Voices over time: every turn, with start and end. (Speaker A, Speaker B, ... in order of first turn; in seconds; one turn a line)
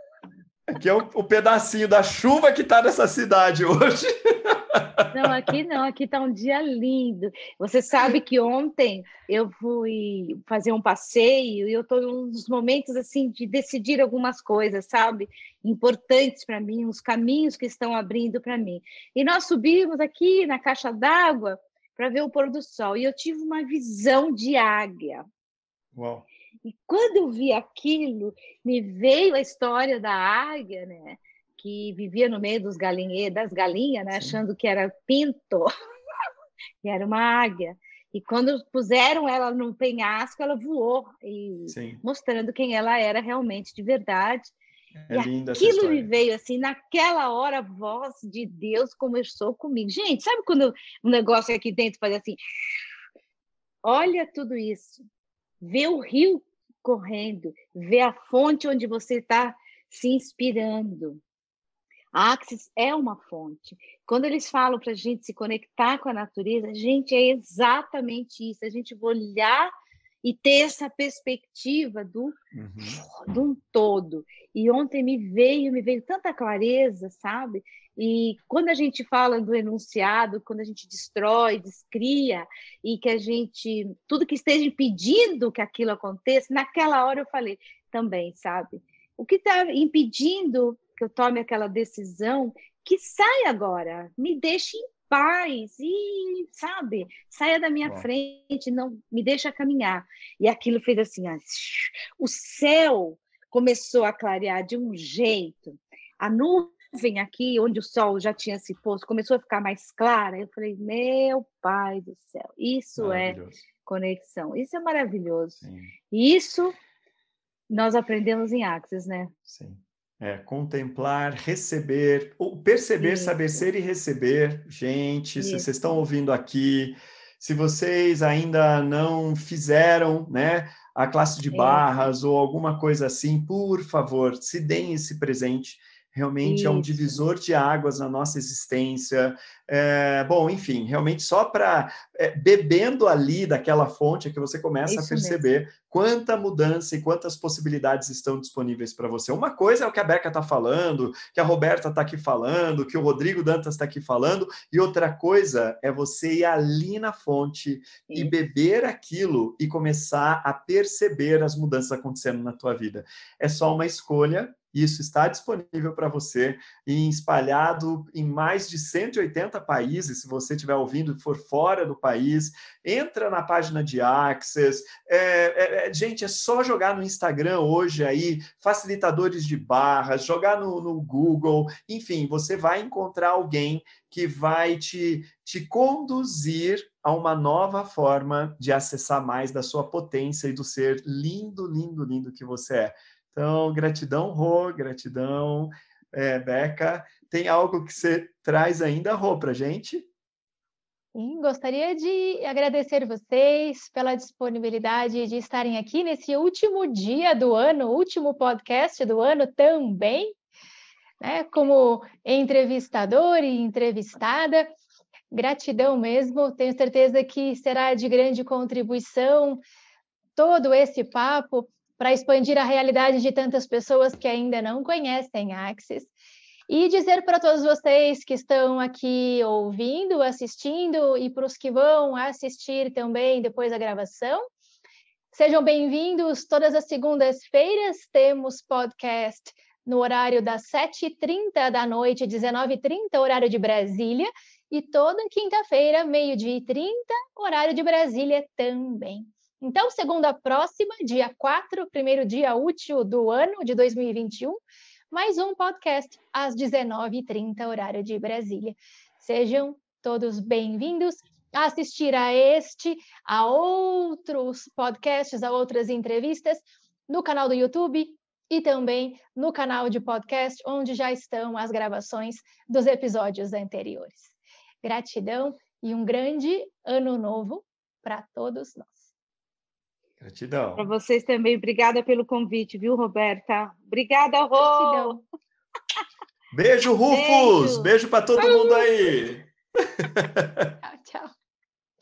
Speaker A: 0.7-5.3
Speaker B: 5.1-25.2
Speaker A: 25.9-26.3
Speaker B: 26.6-35.7
Speaker A: 34.1-34.4
Speaker B: 36.8-44.5
Speaker A: 41.7-42.0
Speaker A: 45.0-46.1
Speaker B: 45.1-52.4
Speaker B: 53.8-55.0
Speaker B: 55.6-61.2
Speaker B: 62.1-69.7
Speaker B: 70.2-116.8
Speaker A: 72.5-73.0
Speaker A: 113.0-113.6
Speaker A: 115.6-115.9
Speaker B: 117.7-119.3
Speaker A: 119.5-200.1
Speaker B: 123.0-123.6
Speaker B: 125.4-125.7
Speaker B: 131.5-131.9
Speaker B: 136.4-137.2
Speaker B: 144.9-145.4
Speaker B: 158.1-158.3
Speaker C: 201.1-210.3
Speaker C: 211.2-214.7
Speaker C: 215.3-219.6
Speaker C: 220.3-226.1
Speaker C: 226.7-234.5
Speaker C: 235.3-279.1
Speaker A: 280.2-280.9
Speaker B: 280.8-285.2
Speaker C: 284.6-285.2
Speaker A: 286.5-289.4
Speaker B: 287.1-289.1
Speaker A: 290.0-290.7
Speaker C: 290.8-291.3